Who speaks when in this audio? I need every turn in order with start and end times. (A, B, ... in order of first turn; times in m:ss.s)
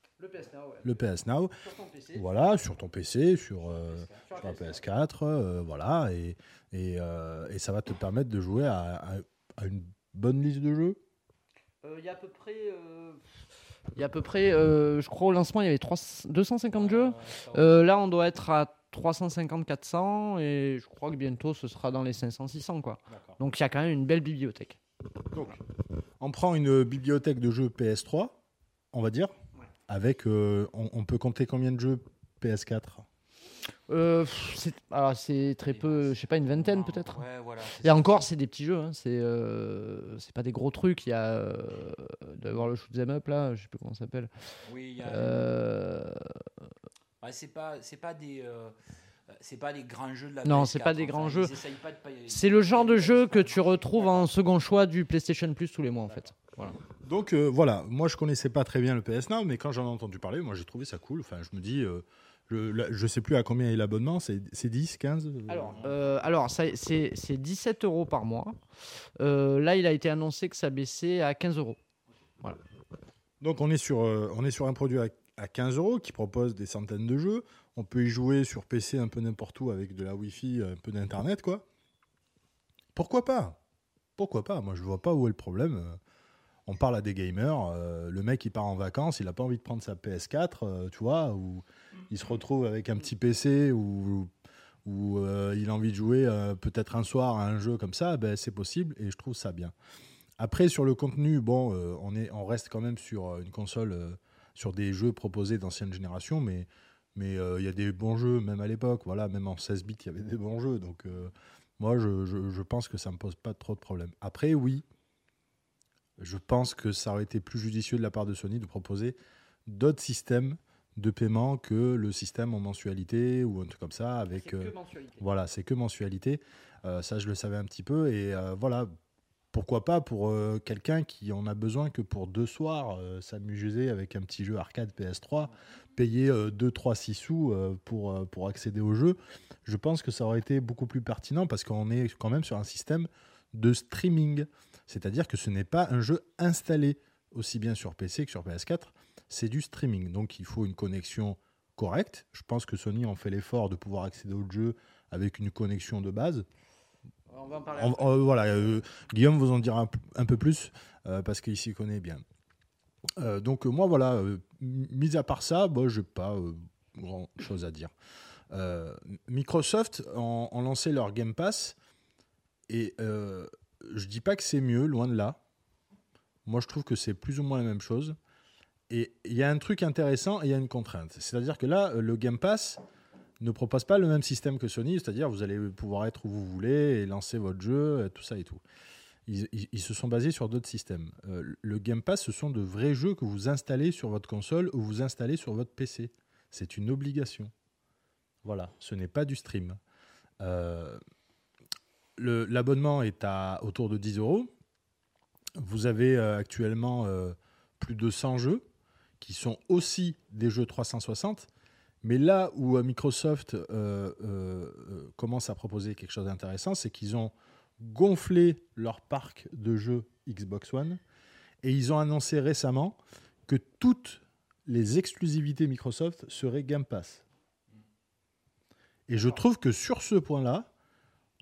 0:00.2-0:01.0 A
0:00.8-0:01.6 B
0:01.6-0:02.5 A
0:02.1-0:11.0 B
0:04.0-0:04.8 A
0:11.8-0:13.2 A
0:14.0-0:24.8 A
0:16.8-0:17.8 C
0:23.1-0:23.4 B
0:25.3-0:25.6 B
0:26.2-0:28.4 B
0:28.9-0:29.3 B
0:29.9-0:33.0 B
0:33.9-0:37.2 A
0:35.8-0:38.2 C
0:37.8-0:44.3 A
0:44.6-0:45.4 C
0:45.0-0:46.3 A
0:47.2-0:48.8 C
0:49.3-0:54.2 C
0:50.4-0:51.5 A
0:52.3-0:56.8 A
0:57.0-1:05.9 B
1:05.5-1:08.6 A
1:09.2-1:11.8 A
1:13.4-1:21.6 B
1:23.0-1:23.6 B
1:24.2-1:26.0 B
1:26.7-1:34.3 B
1:34.8-1:39.7 B
1:40.4-1:54.8 B
1:56.2-1:59.2 B
1:59.7-2:08.9 B
2:04.3-2:05.2 A
2:09.5-2:36.5 B
2:37.3-2:38.3 A
2:37.7-2:42.2 B
2:43.2-2:47.9 B
2:48.5-2:51.8 B
2:52.7-2:55.4 B
2:56.4-2:58.2 B
2:58.9-3:02.8 B
3:03.4-3:08.6 B
3:09.3-3:17.5 B
3:18.4-3:19.8 B
3:20.4-3:21.0 B
3:22.2-3:24.5 B
3:25.6-3:28.7 B
3:29.2-3:31.5 B
3:32.0-3:41.0 B
3:41.6-3:47.2 B
3:49.1-3:50.7 B